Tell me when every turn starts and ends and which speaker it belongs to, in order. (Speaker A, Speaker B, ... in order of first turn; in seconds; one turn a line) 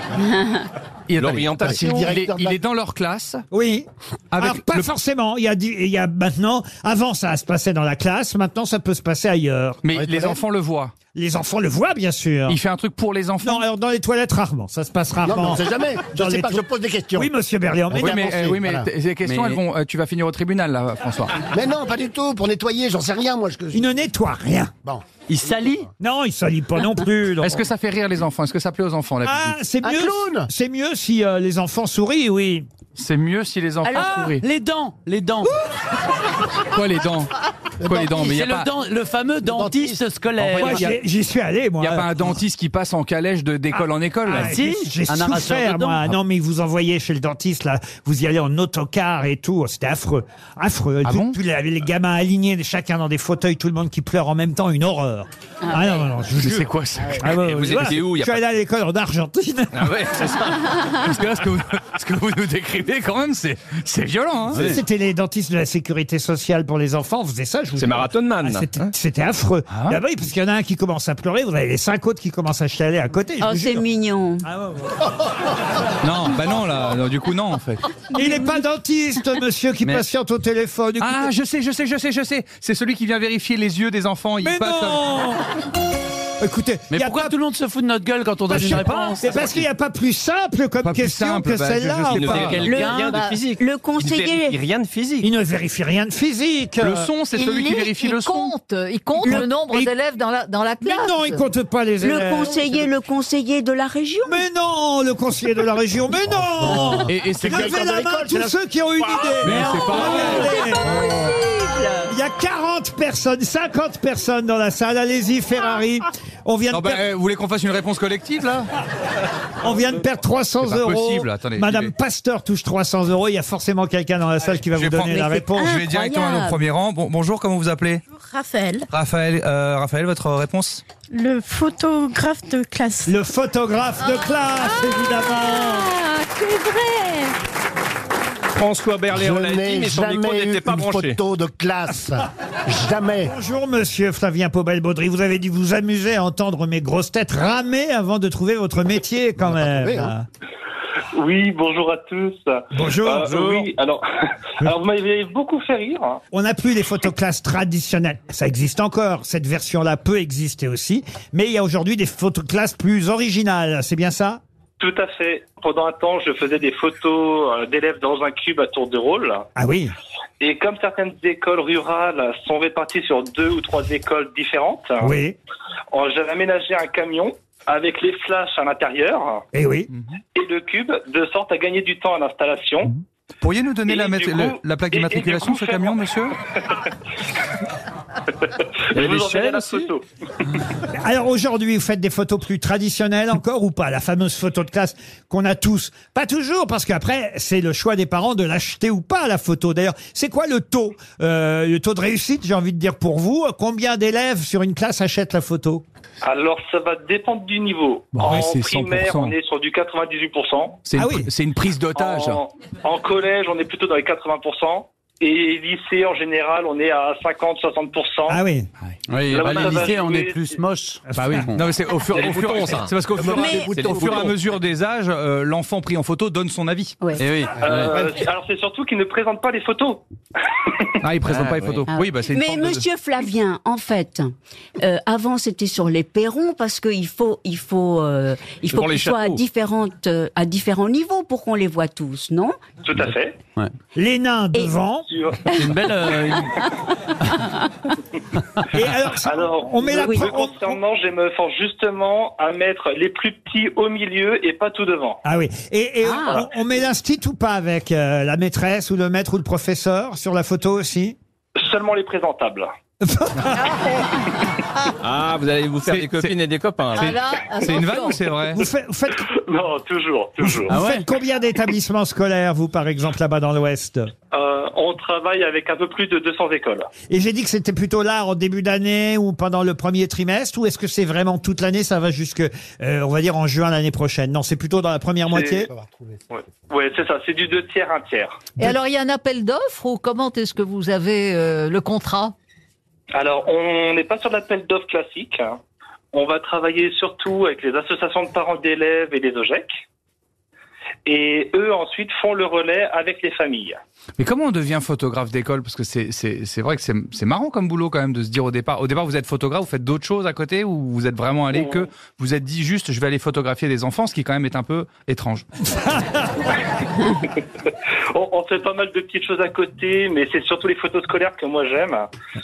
Speaker A: 1.1-3.4
Speaker B: 1.2-1.7
Speaker C: 1.2-2.6
Speaker D: 3.5-9.8
Speaker A: 4.3-4.9
Speaker A: 9.8-10.9
Speaker C: 9.9-10.4
Speaker D: 11.1-12.6
Speaker A: 12.5-13.7
Speaker D: 13.4-18.2
Speaker C: 15.2-17.3
Speaker C: 17.9-18.9
Speaker A: 17.9-21.4
Speaker E: 19.2-19.6
Speaker C: 21.5-23.9
Speaker D: 23.7-24.7
Speaker E: 25.3-25.9
Speaker D: 26.0-27.7
Speaker A: 27.4-29.6
Speaker D: 29.2-32.7
Speaker C: 29.8-30.5
Speaker A: 33.0-34.4
Speaker E: 33.9-35.6
Speaker A: 36.7-37.3
Speaker C: 37.8-38.2
Speaker A: 37.8-38.7
Speaker E: 38.1-40.9
Speaker C: 39.4-40.0
Speaker A: 40.4-41.0
Speaker D: 40.6-42.1
Speaker A: 41.8-44.5
Speaker E: 44.2-46.1
Speaker D: 44.3-60.0
Speaker A: 51.0-51.4
Speaker A: 56.4-57.5
Speaker B: 57.5-58.4
Speaker B: 59.7-60.9
Speaker A: 60.9-64.7
Speaker D: 64.5-73.9
Speaker B: 67.8-68.9
Speaker A: 69.7-70.0
Speaker F: 73.4-74.5
Speaker D: 74.4-75.1
Speaker A: 76.0-77.8
Speaker D: 78.1-81.2
Speaker A: 81.0-85.0
Speaker D: 84.4-85.4
Speaker D: 86.4-87.4
Speaker E: 86.9-89.6
Speaker D: 88.5-92.6
Speaker A: 88.5-89.2
Speaker A: 90.8-92.7
Speaker B: 92.1-95.3
Speaker E: 92.1-93.2
Speaker F: 92.5-94.6
Speaker G: 93.0-93.4
Speaker D: 95.2-97.1
Speaker A: 96.8-98.5
Speaker G: 97.3-101.5
Speaker F: 99.2-99.6
Speaker D: 99.3-99.9
Speaker D: 100.8-102.8
Speaker F: 102.0-104.4
Speaker D: 104.2-111.0
Speaker C: 106.3-109.7
Speaker A: 107.1-107.7
Speaker A: 109.4-110.6
Speaker G: 110.2-110.4
Speaker C: 110.8-111.4
Speaker D: 111.9-117.0
Speaker A: 116.7-118.7
Speaker D: 119.6-125.8
Speaker A: 120.6-121.9
Speaker A: 124.7-128.0
Speaker F: 125.7-126.6
Speaker H: 128.2-128.8
Speaker A: 128.9-130.8
Speaker H: 131.1-133.2
Speaker D: 133.1-135.9
Speaker H: 134.8-137.3
Speaker B: 138.5-141.2
Speaker C: 139.1-143.3
Speaker D: 143.2-150.2
Speaker C: 149.4-150.1
Speaker I: 151.2-154.0
Speaker D: 152.7-153.7
Speaker I: 154.6-156.2
Speaker D: 156.3-164.4
Speaker I: 164.8-169.4
Speaker D: 169.6-169.9
Speaker I: 170.4-175.0
Speaker D: 175.0-175.4
Speaker I: 175.9-179.4
Speaker D: 179.5-179.9
Speaker A: 179.9-180.2
Speaker I: 180.4-182.9
Speaker A: 183.4-186.3
Speaker I: 183.9-186.0
Speaker I: 186.6-186.9
Speaker I: 188.9-190.0
Speaker B: 188.9-189.9
Speaker D: 190.9-205.8
Speaker I: 206.2-210.8
Speaker A: 208.2-209.3
Speaker A: 210.9-212.4
Speaker D: 210.9-211.3
Speaker I: 211.9-218.4
Speaker D: 218.3-218.7
Speaker E: 219.1-221.6
Speaker I: 219.2-220.6
Speaker A: 221.2-227.0
Speaker B: 222.1-224.4
Speaker F: 223.3-224.2
Speaker E: 227.2-228.0
Speaker I: 227.6-230.9
Speaker A: 231.0-232.9
Speaker B: 231.2-231.8
Speaker F: 231.9-242.5
Speaker B: 238.7-239.4
Speaker I: 242.8-243.4
Speaker D: 243.9-245.2
Speaker I: 245.1-245.4
Speaker E: 245.5-246.7
Speaker D: 248.7-250.8
Speaker I: 249.2-255.2
Speaker D: 255.2-261.2
Speaker F: 256.0-256.4
Speaker I: 261.6-262.7
Speaker D: 263.0-263.9
Speaker B: 265.0-267.3
Speaker A: 265.8-266.4
Speaker G: 266.9-268.3
Speaker A: 266.9-268.6
Speaker D: 268.5-269.3
Speaker I: 269.5-270.7
Speaker D: 270.4-274.1
Speaker E: 270.7-271.1
Speaker I: 274.3-276.9
Speaker D: 277.1-285.7
Speaker I: 285.3-285.7
Speaker C: 285.7-286.2
Speaker I: 286.3-288.5
Speaker G: 288.6-292.3
Speaker I: 293.2-295.6
Speaker I: 296.1-299.7
Speaker I: 301.1-303.8
Speaker A: 304.2-315.4
Speaker I: 311.5-311.9
Speaker D: 315.8-316.3
Speaker I: 317.2-322.0